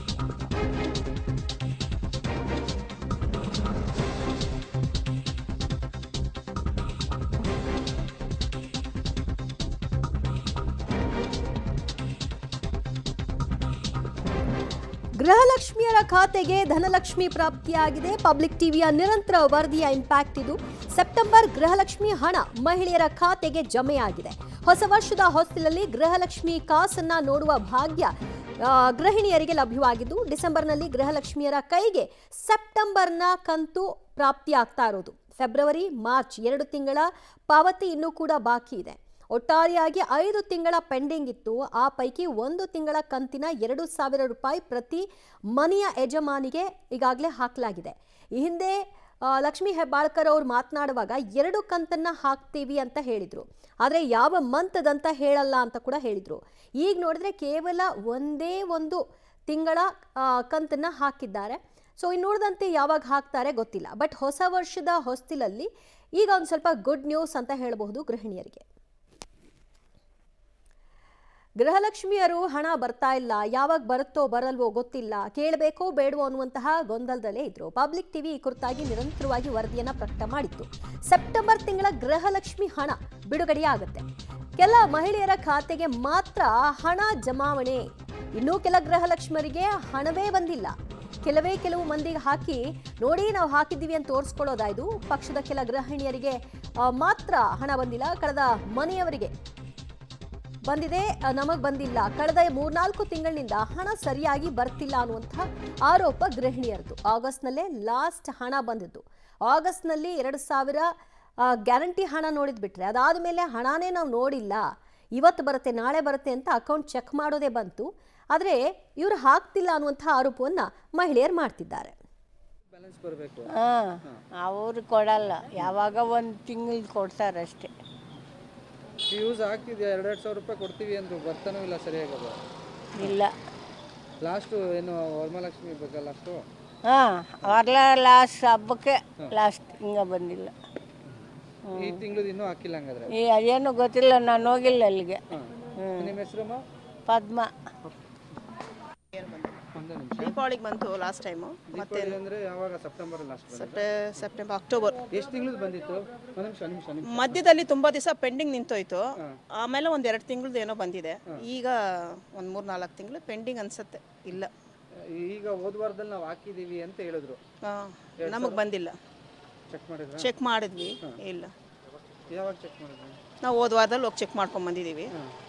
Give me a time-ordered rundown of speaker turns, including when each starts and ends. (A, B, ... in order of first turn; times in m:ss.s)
0:15.2-1:08.7 A
1:11.6-1:39.3 A
1:40.6-2:01.9 A
2:02.7-2:03.5 B
2:04.4-2:07.7 C
2:09.1-2:12.4 B
2:13.0-2:13.3 C
2:14.2-2:16.4 B
2:16.9-2:20.5 C
2:21.7-2:23.1 B
2:23.2-2:25.2 C
2:25.3-2:26.6 B
2:25.8-2:26.1 C
2:27.1-2:27.5 C
2:29.1-2:29.6 D
2:29.7-2:30.4 B
2:30.2-2:32.2 D
2:31.7-2:34.2 B
2:33.6-2:35.0 D
2:35.1-2:37.4 B
2:37.0-2:44.5 D
2:44.9-2:47.4 B
2:47.6-2:48.9 D
2:48.2-2:48.6 B
2:49.7-2:50.3 B
2:50.2-2:51.5 D
2:52.3-2:53.2 B
2:53.4-2:55.1 D